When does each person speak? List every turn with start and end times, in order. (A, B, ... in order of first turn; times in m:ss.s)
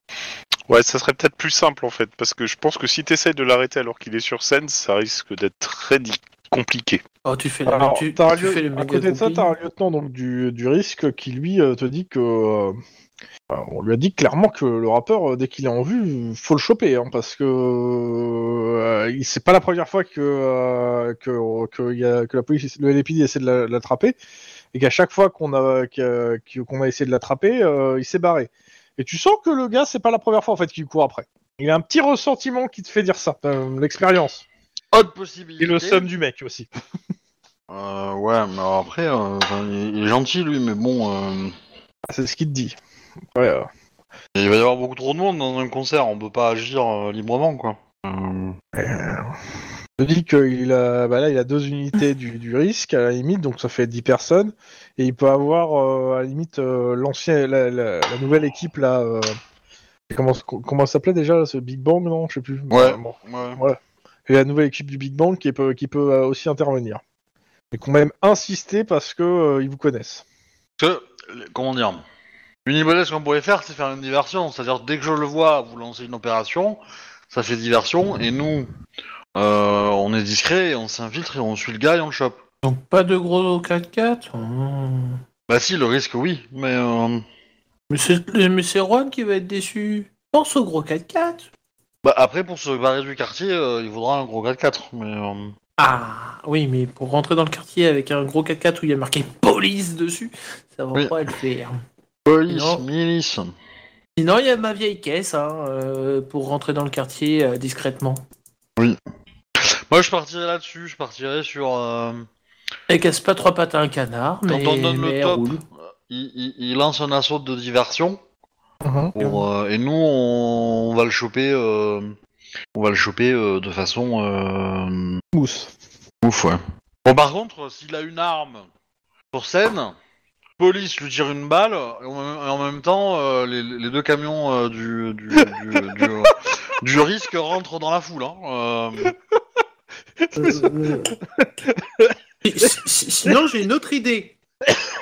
0:00.7-0:07.0 A
0:07.2-0:09.5 B
0:07.7-0:12.8 C
0:13.5-0:24.2 C
0:24.7-0:34.4 C
0:34.9-0:36.1 D
0:35.6-0:36.7 C
0:37.7-0:41.6 D
0:42.1-0:42.8 C
0:43.3-0:43.7 C
0:44.3-0:48.6 D
0:48.7-0:49.3 C
0:50.0-0:59.4 C
1:00.1-1:07.0 C
1:02.7-1:03.6 D
1:07.7-1:10.2 C
1:10.8-1:12.0 D
1:12.6-1:18.7 D
1:19.3-1:22.4 D
1:22.6-1:25.2 B
1:25.5-1:27.2 D
1:27.9-1:31.5 B
1:32.0-1:35.5 D
1:35.8-1:41.8 B
1:42.2-1:43.5 D
1:42.5-1:42.8 B
1:44.2-1:48.2 B
1:49.5-1:52.3 D
1:52.9-1:55.6 B
1:54.5-1:58.2 D
1:58.8-1:59.2 C
1:59.1-2:02.2 D
2:02.7-2:05.2 D
2:05.3-2:05.7 C
2:06.2-2:08.7 D
2:09.3-2:10.0 D
2:10.6-2:19.1 D
2:20.2-2:22.7 C
2:20.3-2:21.1 B
2:22.4-2:24.4 B